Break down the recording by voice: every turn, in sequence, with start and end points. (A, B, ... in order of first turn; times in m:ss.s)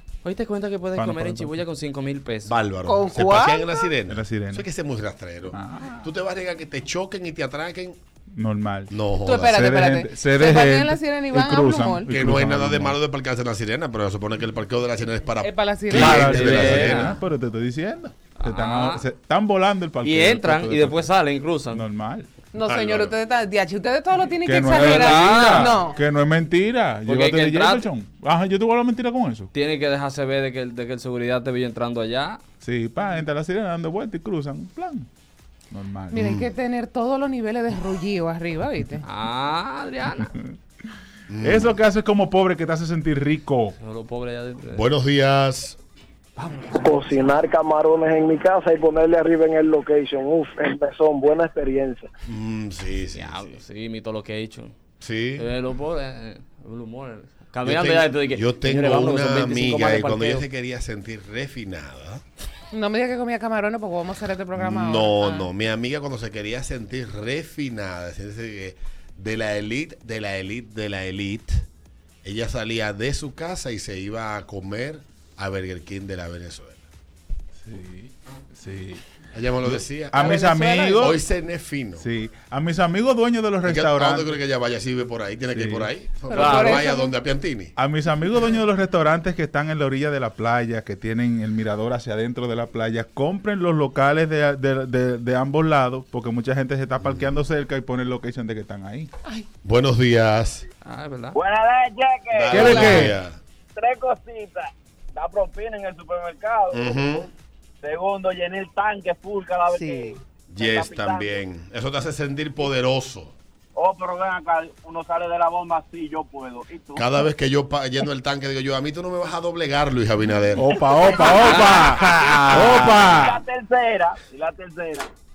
0:00.2-0:02.5 A
0:01.0-0:01.6 B
0:02.4-0:08.0 C
0:02.9-0:03.8 D
0:04.1-0:04.6 B
0:05.5-0:06.1 B
0:08.3-0:13.0 B
0:08.9-0:09.6 C
0:09.2-0:12.1 D
0:12.1-0:17.2 C
0:15.4-0:16.7 D
0:15.9-0:21.1 B
0:15.9-0:17.1 A
0:18.4-0:19.0 A
0:20.0-0:21.8 A
0:21.7-0:22.3 B
0:22.5-0:26.0 D
0:22.6-0:23.1 C
0:24.4-0:29.5 B
0:24.7-0:25.8 A
0:27.0-0:27.9 A
0:29.5-0:32.4 A
0:32.6-0:35.1 B
0:35.7-0:36.3 B
0:36.1-0:39.0 D
0:36.1-0:36.5 C
0:39.0-0:40.3 A
0:40.2-0:40.5 B
0:41.3-0:41.8 C
0:41.4-0:43.8 B
0:43.8-0:44.8 A
0:44.7-0:45.8 C
0:46.7-0:52.1 E
0:52.2-0:53.6 C
0:53.1-0:54.7 A
0:55.0-0:55.5 C
0:55.4-1:00.4 A
0:57.6-1:02.2 C
1:02.7-1:05.5 D
1:04.5-1:11.6 C
1:12.2-1:16.8 C
1:17.6-1:19.0 B
1:19.3-1:22.1 C
1:19.6-1:21.2 B
1:20.1-1:21.0 D
1:22.0-1:24.4 B
1:23.6-1:27.7 C
1:25.5-1:25.9 B
1:26.3-1:27.1 D
1:26.3-1:26.8 A
1:27.8-1:39.1 B
1:37.0-1:37.4 C
1:39.6-1:40.6 C
1:40.8-1:41.4 A
1:42.0-1:42.6 E
1:42.3-1:43.4 C
1:42.5-1:43.2 B
1:42.6-1:43.0 D
1:45.6-1:46.5 F
1:46.7-1:47.3 C
1:47.8-1:50.0 F
1:49.7-1:50.2 D
1:50.5-1:53.3 C
1:53.9-1:56.6 F
1:56.9-2:00.7 C
2:00.6-2:03.4 B
2:01.2-2:03.2 A
2:03.2-2:03.6 E